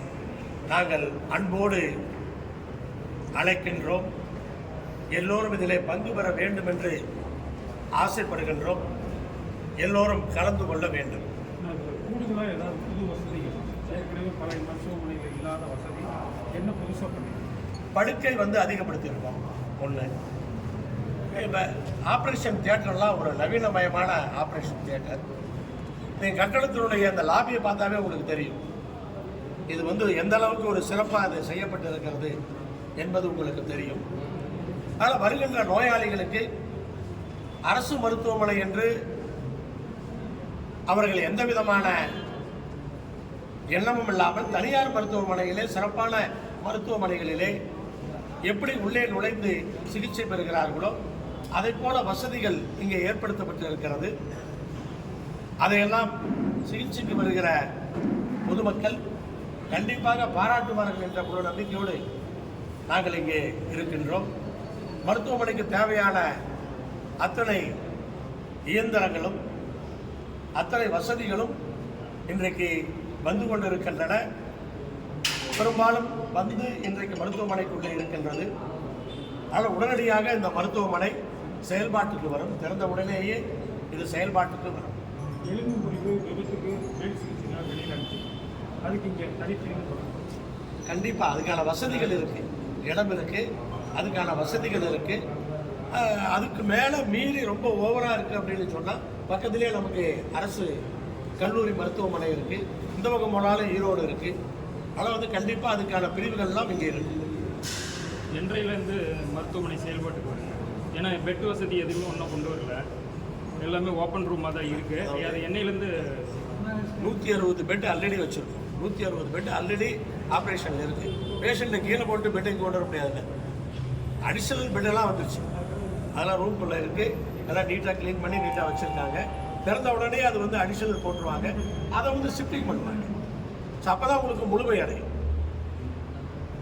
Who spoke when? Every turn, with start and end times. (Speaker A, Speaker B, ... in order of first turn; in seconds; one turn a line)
Speaker A: 0.7-1.9
Speaker A: 3.4-4.1
Speaker A: 5.1-7.0
Speaker A: 8.0-8.8
Speaker A: 9.8-11.2
Speaker B: 11.6-17.4
Speaker A: 17.9-20.1
Speaker A: 21.3-25.2
Speaker A: 26.2-28.6
Speaker A: 29.7-32.3
Speaker A: 33.0-34.0
Speaker A: 35.0-36.4
Speaker A: 37.7-38.9
Speaker A: 40.9-42.0
Speaker A: 43.7-47.5
Speaker A: 48.5-51.0
Speaker A: 51.6-54.1
Speaker A: 55.6-56.1
Speaker A: 56.7-57.5
Speaker A: 58.5-59.0
Speaker A: 59.7-62.0
Speaker A: 62.9-64.3
Speaker A: 65.1-66.2
Speaker A: 67.2-67.7
Speaker A: 68.7-69.4
Speaker A: 70.6-71.5
Speaker A: 72.3-74.2
Speaker A: 75.6-78.5
Speaker A: 79.5-81.1
Speaker A: 81.7-83.4
Speaker A: 83.9-85.0
Speaker B: 85.5-88.3
Speaker B: 88.8-90.2
Speaker A: 90.9-93.4
Speaker A: 94.0-95.2
Speaker A: 95.9-100.8
Speaker A: 101.4-104.3
Speaker A: 105.0-107.1
Speaker C: 108.4-112.8
Speaker C: 113.6-116.2
Speaker A: 114.9-115.4
Speaker A: 117.0-123.2
Speaker A: 124.3-125.5
Speaker A: 126.1-133.1
Speaker A: 133.8-135.1